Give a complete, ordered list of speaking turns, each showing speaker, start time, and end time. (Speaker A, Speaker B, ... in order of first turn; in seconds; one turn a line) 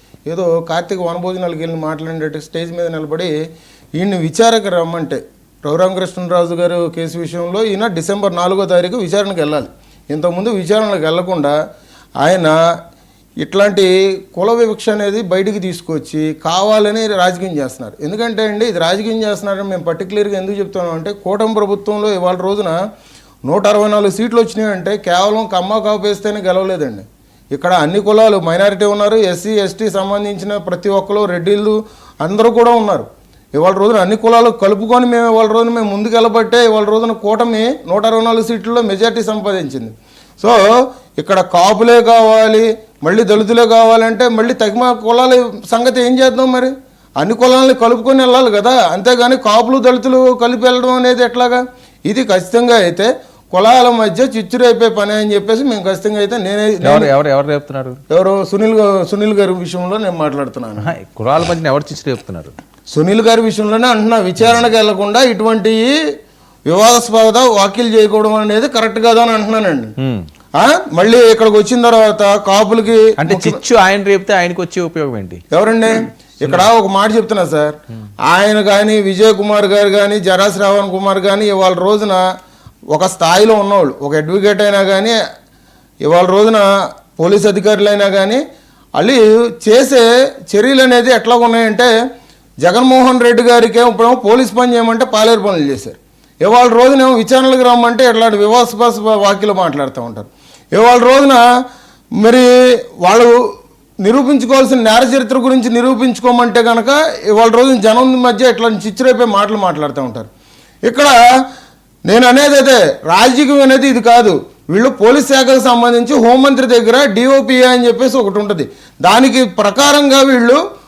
Speaker A: 0.3-3.3
Speaker A: 4.0-11.6
Speaker A: 12.2-12.6
Speaker A: 13.4-22.8
Speaker A: 23.4-40.6
Speaker A: 41.2-57.1
Speaker B: 56.8-58.0
Speaker A: 58.1-60.9
Speaker B: 60.8-62.5
Speaker A: 62.9-66.0
Speaker A: 66.7-69.9
Speaker B: 70.0-70.2
Speaker A: 70.5-73.6
Speaker B: 73.2-75.4
Speaker A: 75.5-77.7
Speaker A: 78.2-82.2
Speaker A: 82.9-85.2
Speaker A: 86.0-88.4
Speaker A: 89.0-91.9
Speaker A: 92.6-101.4
Speaker A: 102.2-102.5
Speaker A: 103.0-103.4
Speaker A: 104.0-110.3
Speaker A: 110.8-111.2
Speaker A: 112.1-120.6